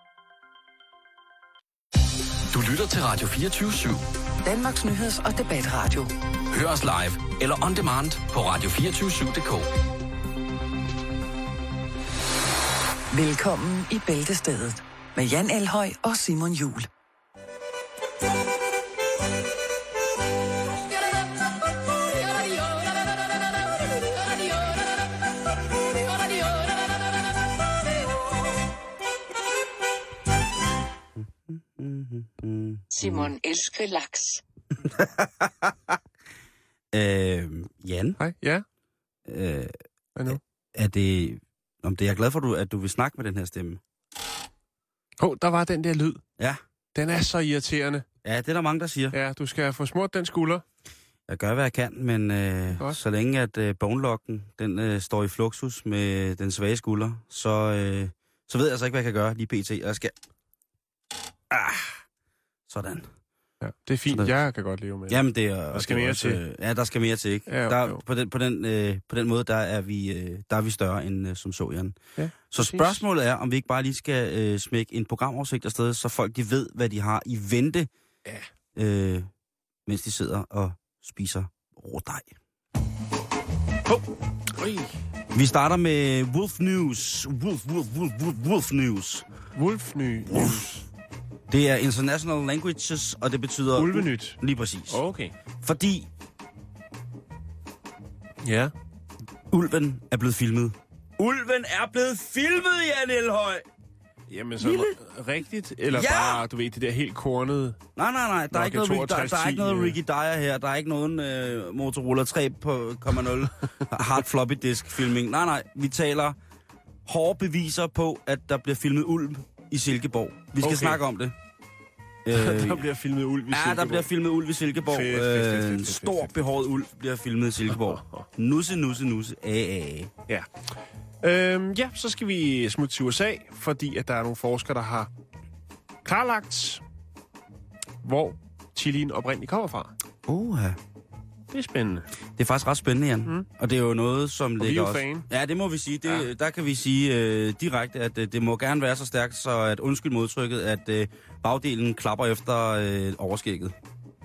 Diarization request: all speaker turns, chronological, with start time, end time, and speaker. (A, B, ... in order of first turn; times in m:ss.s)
0:02.5-0:04.0 A
0:04.4-0:06.1 B
0:06.5-0:09.7 A
0:13.1-0:16.9 B
0:31.2-0:33.3 C
0:32.9-0:34.4 B
0:34.8-0:35.8 C
0:36.9-0:38.2 C
0:38.2-0:38.6 D
0:39.3-0:39.7 C
0:40.3-0:43.8 C
0:45.2-0:46.2 D
0:47.0-0:48.0 D
0:48.2-0:49.2 C
0:49.1-0:50.6 D
0:51.3-1:00.2 C
1:01.5-1:01.9 C
1:02.7-1:03.1 C
1:03.6-1:05.2 D
1:05.1-1:12.0 C
1:05.7-1:06.4 D
1:07.5-1:08.0 D
1:12.2-1:13.0 D
1:12.5-1:17.9 C
1:18.8-1:19.3 C
1:19.9-1:22.3 C
1:24.5-1:24.9 D
1:25.3-1:29.3 C
1:29.6-1:30.8 D
1:30.3-1:30.6 C
1:31.5-1:35.0 C
1:33.7-1:35.3 D
1:35.6-1:36.1 C
1:38.4-1:38.7 D
1:39.5-1:43.7 C
1:44.3-1:47.8 D
1:44.6-1:45.0 C
1:45.9-1:46.4 C
1:48.0-1:56.4 C
1:48.5-1:50.0 D
1:57.1-2:01.4 C
2:00.6-2:01.0 D
2:02.2-2:02.8 C
2:02.3-2:04.1 D
2:03.5-2:10.1 C
2:04.9-2:06.4 D
2:07.8-2:08.2 D
2:10.3-2:10.7 D
2:11.2-2:15.1 D
2:16.0-2:16.8 D
2:18.0-2:19.9 D
2:20.3-2:20.8 C
2:21.5-2:22.1 D
2:22.4-2:33.8 C
2:24.6-2:25.3 D